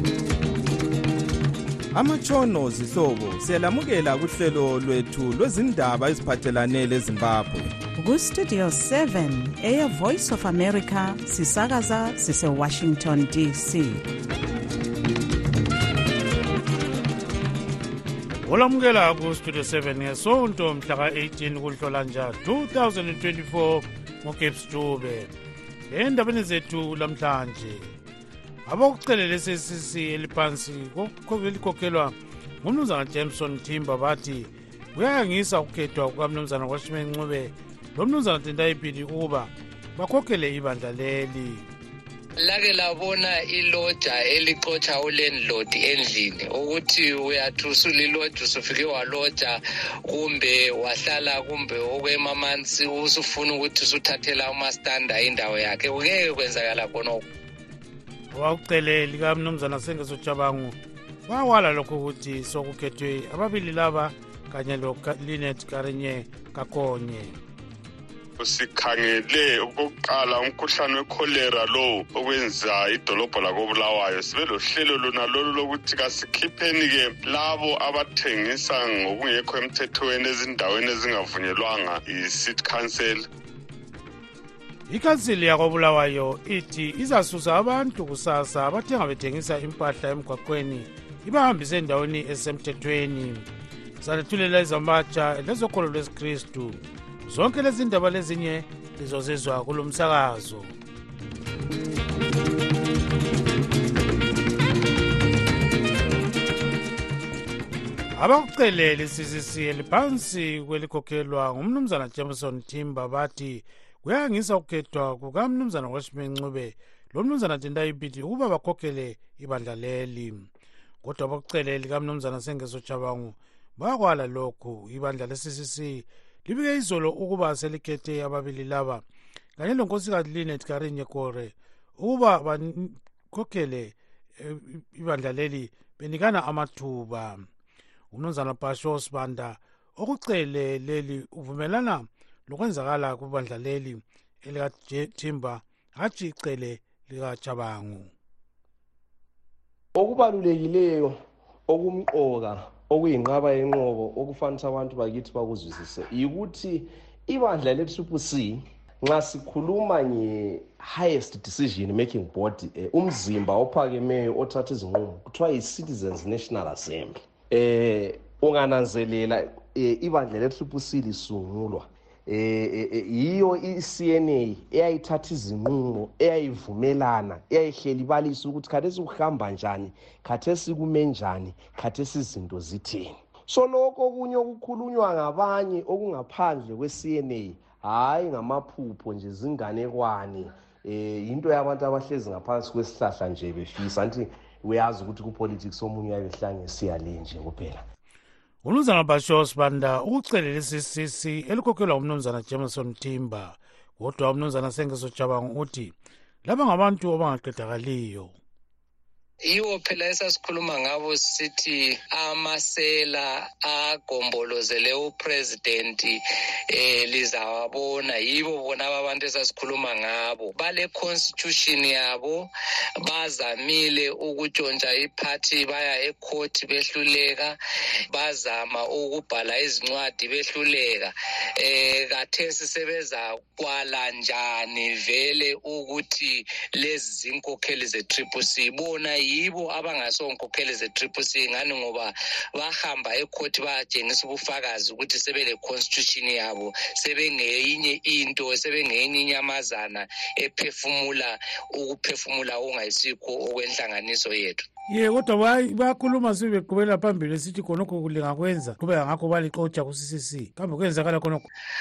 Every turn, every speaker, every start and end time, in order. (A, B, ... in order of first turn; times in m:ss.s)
0:01.9-0:07.7 A
0:07.9-0:14.0 B
0:18.4-0:25.3 C
0:25.9-0:27.9 C
0:28.6-0:41.6 C
0:42.4-0:57.2 D
0:58.3-1:00.8 C
1:01.3-1:07.3 C
1:08.4-1:23.2 E
1:24.9-1:33.5 C
1:34.0-1:40.7 C
1:48.2-2:00.5 C
2:01.0-2:09.0 C
2:09.6-2:17.4 C
2:18.1-2:28.1 C
2:30.0-2:31.1 F
2:31.7-3:17.8 F
3:18.6-3:25.9 C
3:26.4-3:28.3 C
3:29.5-3:36.2 D
3:36.7-3:42.5 D
3:43.0-3:47.6 D
3:48.1-4:14.6 D
4:14.9-4:21.5 C